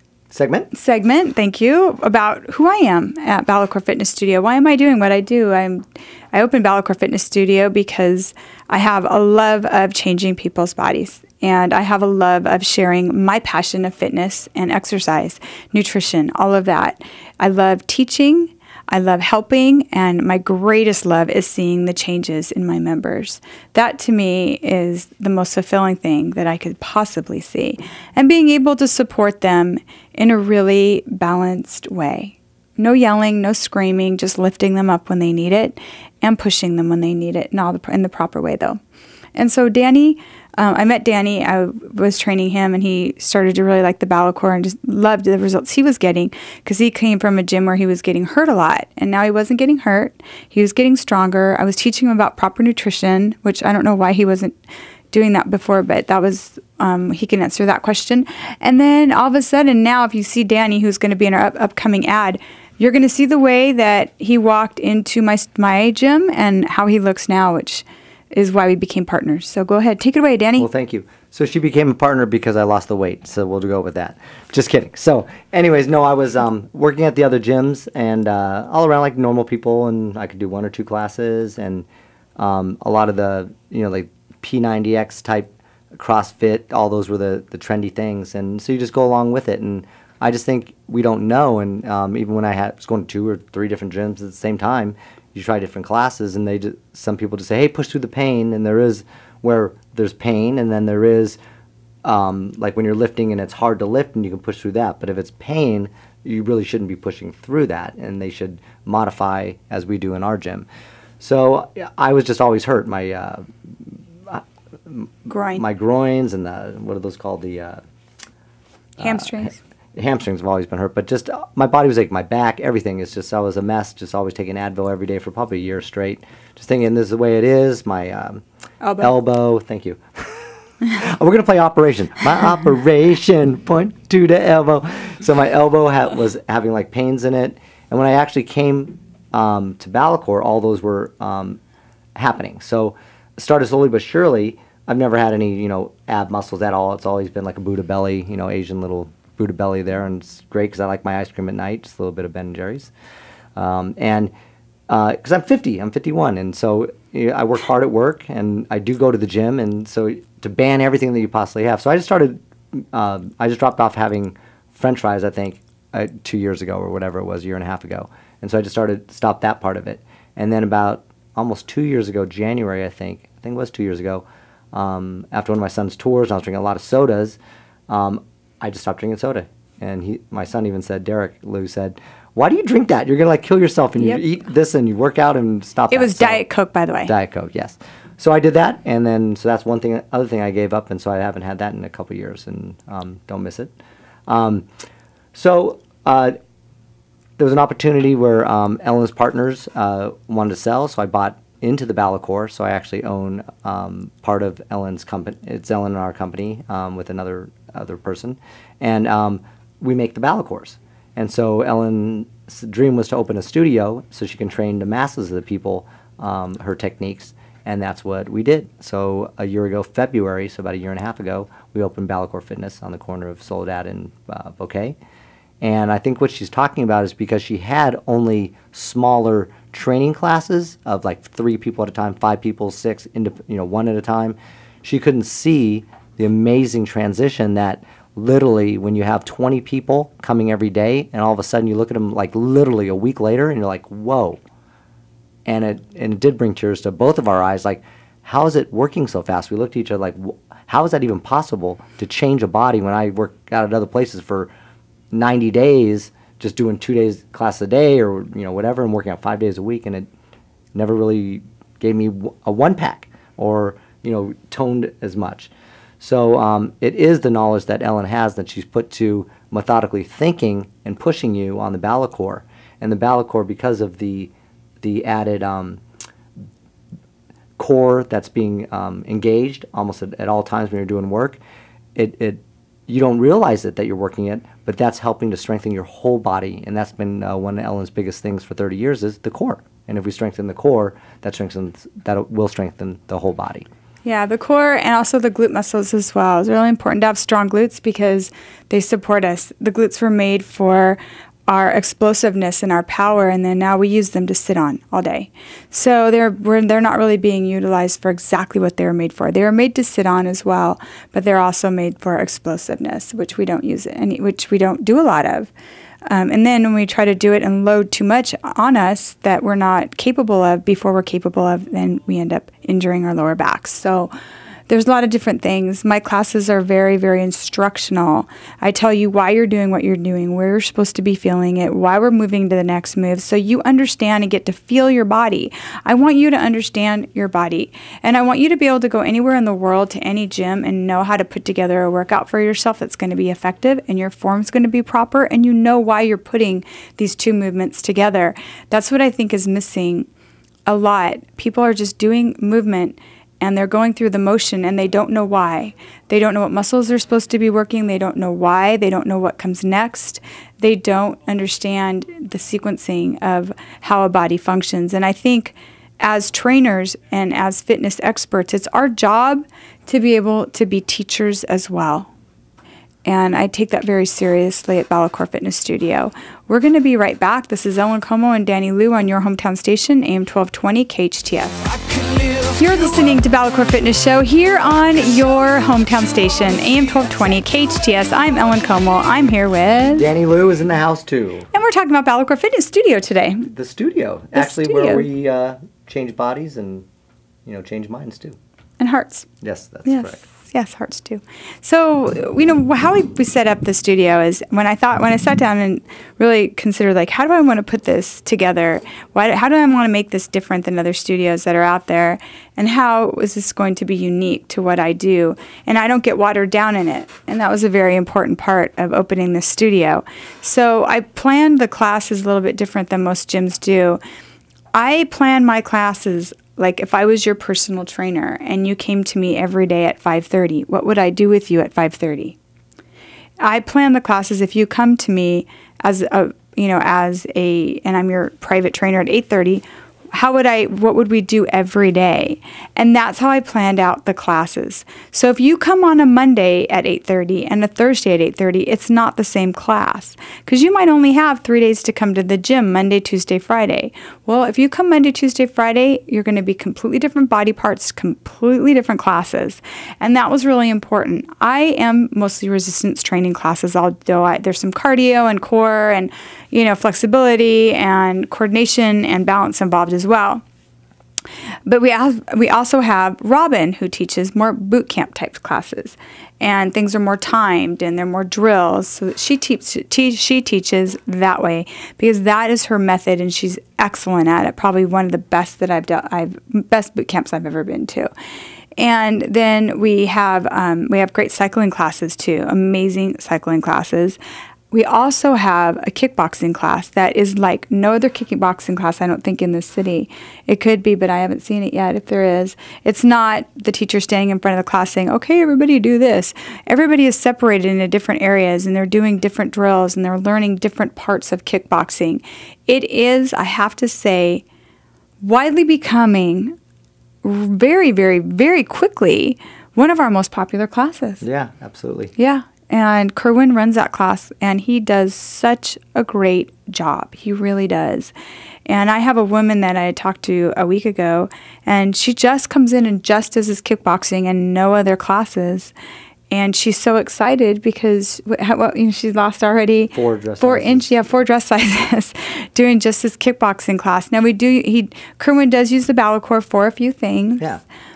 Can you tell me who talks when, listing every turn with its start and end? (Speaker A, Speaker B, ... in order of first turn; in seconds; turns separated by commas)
Speaker A: 0.3-0.7, Speaker B: 0.7-38.8, Speaker B: 39.4-54.6, Speaker B: 55.1-70.7, Speaker A: 70.6-81.9, Speaker A: 82.4-101.4, Speaker A: 102.0-110.7, Speaker A: 111.2-117.8, Speaker B: 115.3-115.6, Speaker A: 119.0-128.4, Speaker B: 119.0-119.6, Speaker B: 128.8-129.1, Speaker A: 129.0-130.0, Speaker A: 130.9-141.6, Speaker A: 142.2-152.9, Speaker A: 153.6-154.3, Speaker A: 154.9-177.4, Speaker A: 177.9-186.4, Speaker B: 185.9-187.1, Speaker A: 187.1-193.7, Speaker A: 194.3-194.7, Speaker A: 195.3-196.3, Speaker A: 197.4-225.0, Speaker A: 225.6-244.4, Speaker A: 245.5-254.5, Speaker A: 255.1-260.1, Speaker A: 260.7-275.8, Speaker A: 277.6-281.4, Speaker A: 282.0-293.7, Speaker B: 294.0-315.5, Speaker B: 316.1-324.1, Speaker B: 324.7-350.1, Speaker B: 350.7-372.1, Speaker B: 373.1-381.7, Speaker B: 382.5-390.1, Speaker A: 389.9-391.5, Speaker B: 391.5-393.5, Speaker A: 393.5-396.9, Speaker B: 394.4-395.1, Speaker A: 397.5-398.4, Speaker B: 398.8-399.3, Speaker A: 399.4-400.2, Speaker B: 399.9-424.0, Speaker B: 424.7-432.4, Speaker B: 433.4-470.4, Speaker B: 471.7-488.1, Speaker B: 488.8-494.2, Speaker B: 494.7-514.4, Speaker B: 515.2-516.5, Speaker B: 517.2-521.2, Speaker A: 521.2-522.1, Speaker B: 522.2-528.1, Speaker B: 528.7-535.7, Speaker B: 536.3-547.5, Speaker A: 539.9-540.9